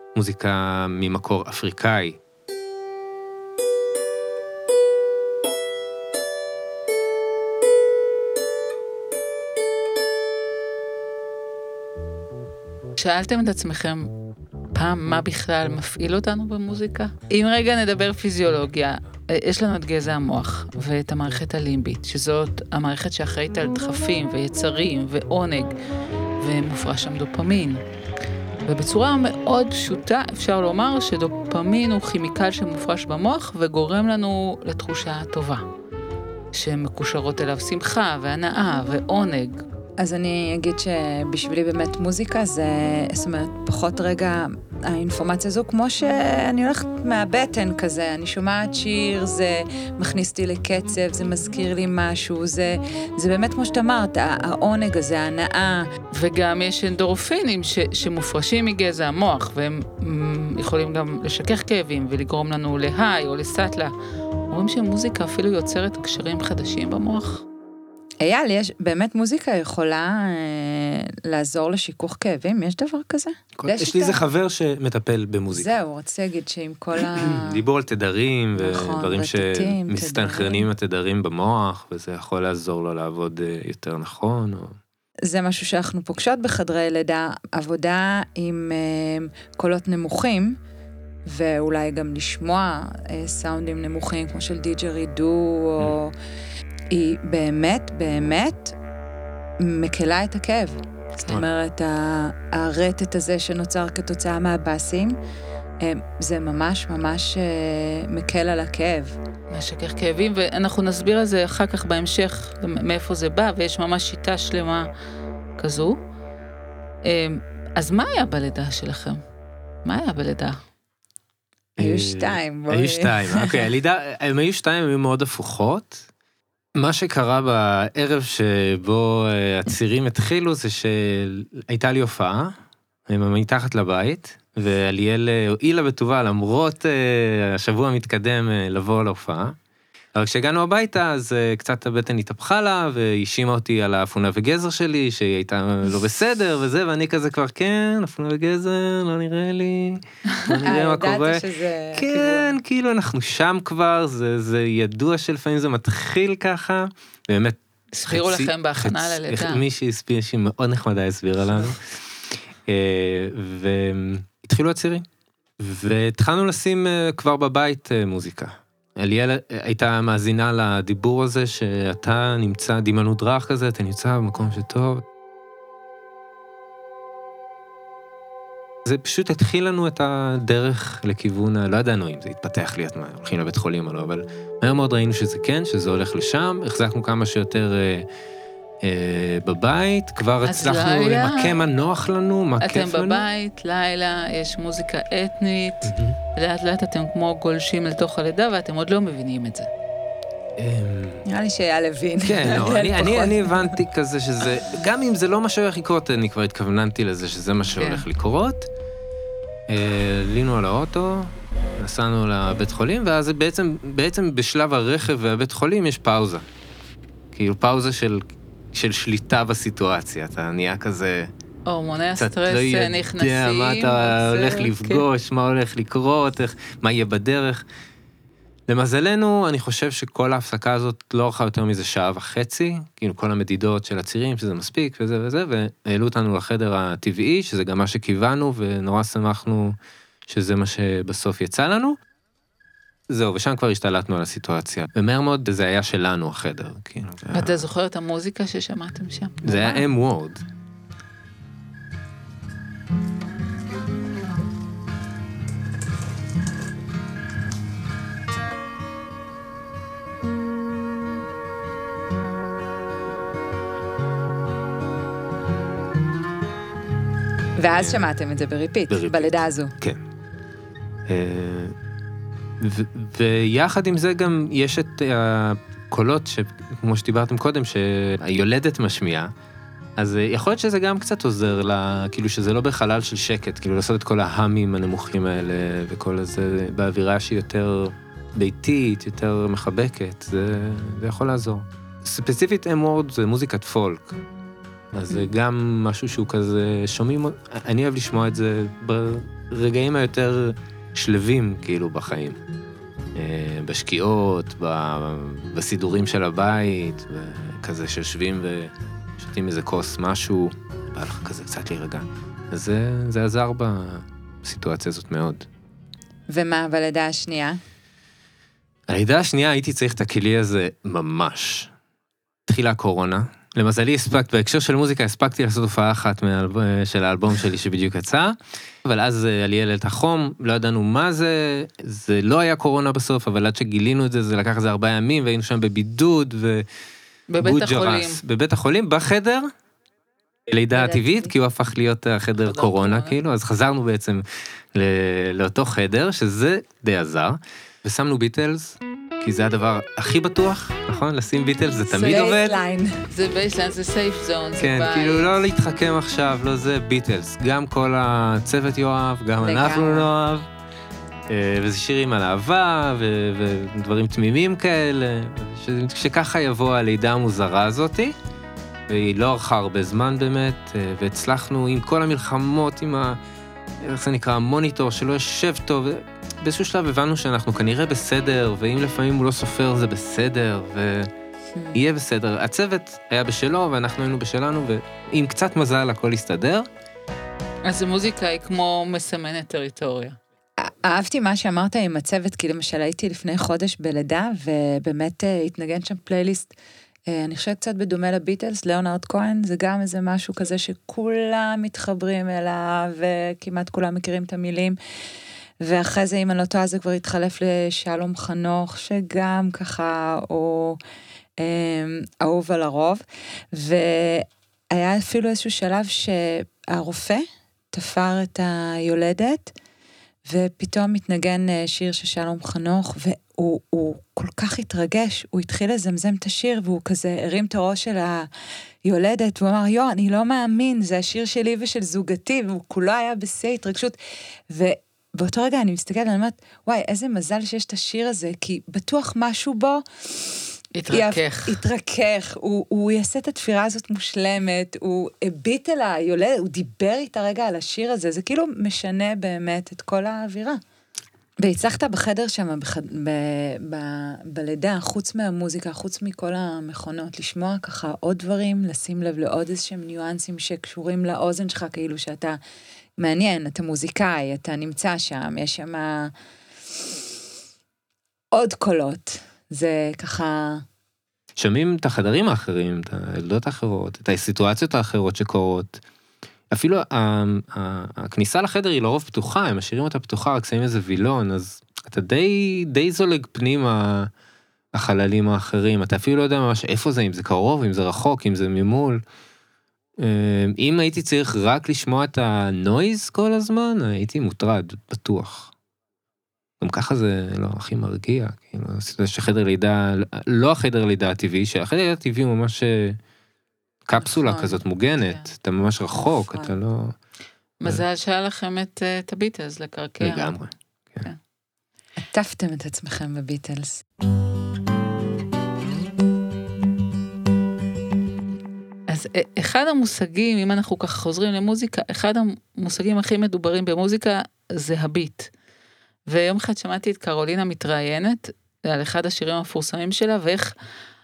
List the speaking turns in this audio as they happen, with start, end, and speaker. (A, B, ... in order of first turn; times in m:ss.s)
0:00.1-0:02.2 A
0:13.0-0:14.1 B
0:14.7-0:25.7 B
0:26.4-0:27.8 B
0:28.6-0:35.6 B
0:36.5-0:39.6 B
0:40.0-0:55.9 C
0:56.1-1:03.9 B
1:04.5-1:07.4 B
1:08.2-1:14.3 C
1:13.6-1:15.7 A
1:15.5-1:17.6 C
1:17.0-1:24.8 A
1:18.6-1:20.7 C
1:25.2-1:30.6 C
1:31.3-1:36.1 C
1:36.9-1:38.8 C
1:39.6-1:45.2 C
1:45.8-1:49.2 C
1:49.5-1:54.9 B
1:55.6-1:56.0 B
1:57.0-1:59.2 B
1:59.8-2:00.6 B
2:01.8-2:06.1 A
2:01.8-2:03.7 C
2:06.8-2:12.5 A
2:13.1-2:19.6 A
2:20.1-2:41.8 A
2:30.6-2:32.6 C
2:37.9-2:39.6 B
2:42.6-2:45.0 A
2:45.6-2:55.0 A
2:58.8-3:08.1 A
3:08.8-3:13.2 A
3:10.4-3:11.6 B
3:12.6-3:19.7 B
3:15.9-3:16.2 A
3:20.6-3:21.2 A
3:21.2-3:23.8 C
3:22.2-3:28.7 A
3:27.8-3:28.0 B
3:29.7-3:36.4 A
3:37.3-3:41.3 A
3:41.6-3:45.0 B
3:42.2-3:47.6 A
3:48.7-4:02.0 A
4:03.1-4:07.6 A
4:07.3-4:09.8 B
4:09.4-4:10.4 A
4:27.6-4:29.7 C
4:27.8-4:28.1 A
4:28.9-4:30.0 A
4:31.1-4:31.8 A
4:32.6-4:39.3 A
4:40.0-4:54.2 A
4:54.9-5:02.4 A
5:03.1-5:15.5 A
5:16.3-5:17.6 C
5:18.9-5:21.7 A
5:22.5-5:36.6 A
5:37.3-5:38.2 B
5:37.4-5:39.5 A
5:40.5-5:52.6 A
5:40.8-5:41.3 C
5:42.4-5:43.2 B
5:51.9-5:53.1 C
5:53.1-5:55.3 B
5:54.6-6:00.5 A
5:59.4-6:00.1 C
6:01.3-6:08.1 A
6:08.9-6:13.2 A
6:13.8-6:21.1 A
6:21.5-6:21.8 C
6:21.7-6:26.7 A
6:27.6-6:30.2 B
6:30.6-6:36.5 C
6:37.1-6:44.8 C
6:45.6-6:50.8 C
6:51.4-6:59.5 C
7:00.2-7:08.3 C
7:08.8-7:14.0 C
7:14.5-7:30.6 C
7:20.8-7:21.6 B
7:31.4-7:42.4 C
7:43.0-7:46.1 C
7:48.3-7:50.6 C
7:51.4-7:55.8 A
7:56.5-8:04.1 A
8:04.7-8:09.0 A
8:10.0-8:15.5 A
8:16.6-8:23.0 A
8:23.9-8:26.9 A
8:24.2-8:24.5 B
8:26.1-8:26.5 C
8:27.6-8:30.3 B
8:30.0-8:31.0 A
8:32.0-8:33.8 C
8:38.9-8:45.3 B
8:46.1-8:50.5 B